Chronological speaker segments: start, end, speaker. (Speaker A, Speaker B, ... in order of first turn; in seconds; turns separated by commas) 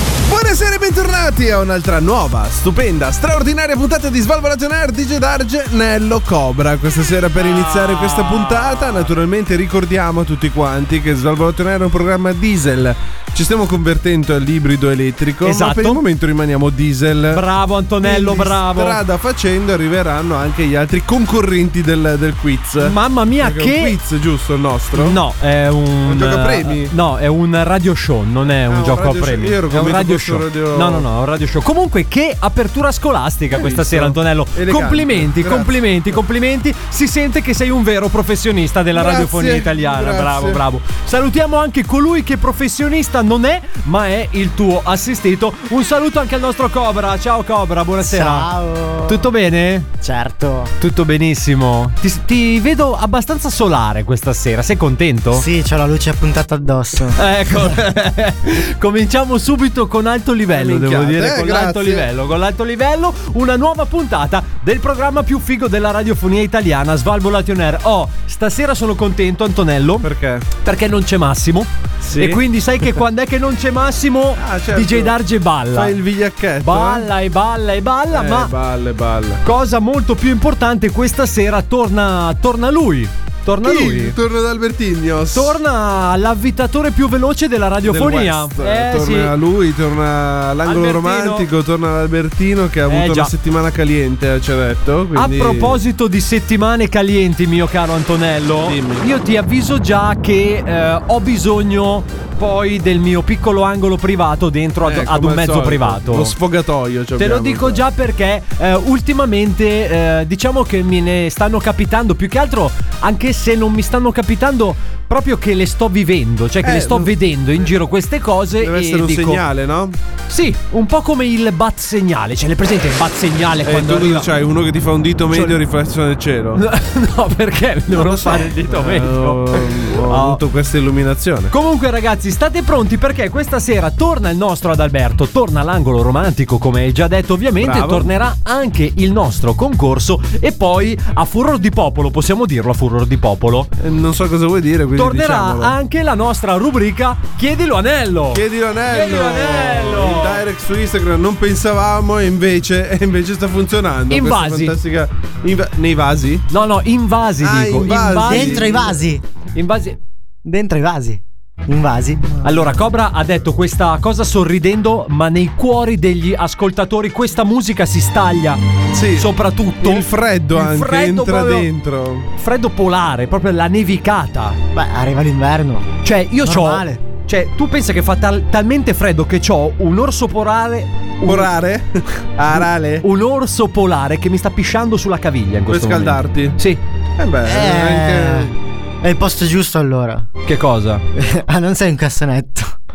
Speaker A: 0.2-17.4, Speaker B: 7.4-9.1, Speaker B: 15.4-16.0, Speaker B: 17.3-19.0, Speaker A: 18.0-25.2, Speaker B: 22.8-24.0, Speaker B: 24.9-48.5, Speaker A: 26.1-26.9, Speaker A: 28.7-31.1, Speaker A: 33.5-36.2, Speaker A: 38.9-40.6, Speaker C: 48.0-49.3, Speaker B: 49.1-49.9, Speaker C: 50.0-50.7, Speaker B: 50.8-55.4, Speaker C: 55.3-57.7, Speaker B: 57.2-70.1, Speaker A: 60.5-62.1, Speaker A: 70.0-70.5, Speaker B: 70.6-76.0, Speaker A: 72.0-73.0, Speaker A: 74.4-75.2, Speaker A: 75.7-77.1, Speaker B: 76.6-78.5, Speaker A: 78.1-79.4, Speaker B: 79.4-84.2, Speaker A: 83.6-85.5, Speaker B: 85.3-89.3, Speaker A: 87.8-95.8, Speaker B: 90.6-91.5, Speaker B: 92.9-93.3, Speaker B: 95.2-106.3, Speaker A: 98.7-99.1, Speaker A: 104.8-107.8, Speaker B: 107.2-119.4, Speaker A: 116.6-117.1, Speaker A: 118.6-120.0, Speaker B: 120.3-124.3, Speaker A: 123.6-126.6, Speaker B: 125.3-125.6, Speaker B: 126.5-130.4, Speaker A: 127.9-131.5, Speaker B: 131.5-143.7, Speaker A: 137.6-138.1, Speaker A: 143.8-145.8, Speaker B: 144.9-150.4, Speaker A: 148.3-156.5, Speaker B: 154.1-154.8, Speaker B: 156.5-158.8, Speaker A: 157.4-159.0, Speaker C: 158.2-159.2, Speaker B: 159.5-160.0, Speaker C: 160.4-162.6, Speaker B: 162.4-168.6, Speaker A: 168.9-169.3, Speaker B: 169.2-171.7, Speaker A: 169.8-172.3, Speaker B: 172.4-174.6, Speaker C: 174.7-177.0, Speaker B: 176.0-181.5, Speaker A: 181.2-183.1, Speaker B: 182.6-186.8, Speaker A: 185.7-186.6, Speaker A: 187.2-188.5, Speaker C: 187.4-190.3, Speaker B: 190.4-191.0, Speaker C: 191.1-192.8